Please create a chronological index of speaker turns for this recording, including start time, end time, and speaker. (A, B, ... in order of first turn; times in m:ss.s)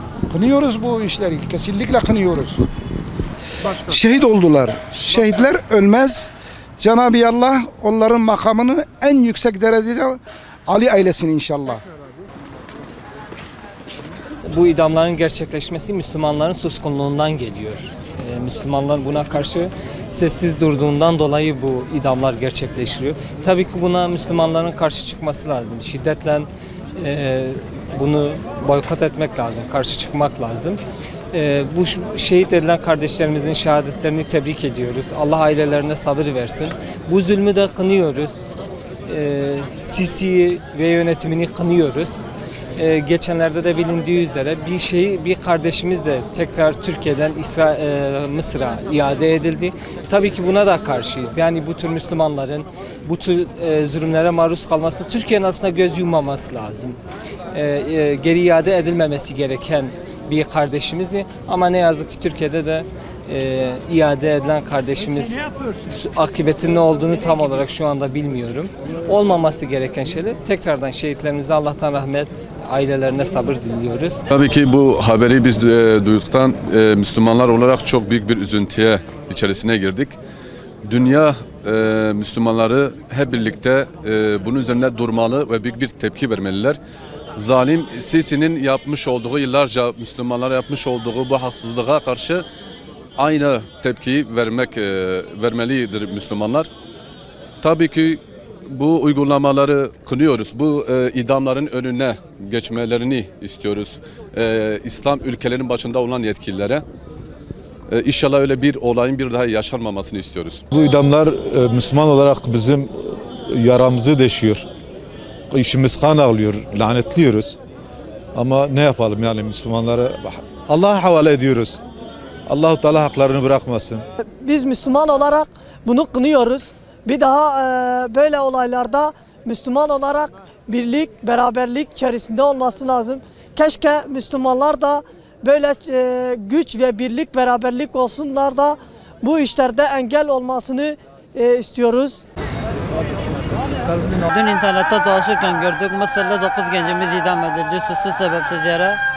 0:00.3-0:02.6 A
0:03.8-0:11.8 A
0:14.5-0:30.8 B
0:31.3-0:38.5 B
0:39.0-0:42.2 B
0:42.8-0:57.0 B
0:57.5-1:14.2 B
1:14.3-1:20.2 C
1:20.8-1:26.8 C
1:27.4-1:32.4 C
1:33.2-1:36.7 C
1:37.6-1:46.8 C
1:47.9-1:50.6 C
1:50.7-1:54.7 D
1:55.5-1:57.6 D
1:58.4-2:01.8 D
2:02.5-2:04.0 D
2:04.4-2:22.2 E
2:24.2-2:29.0 F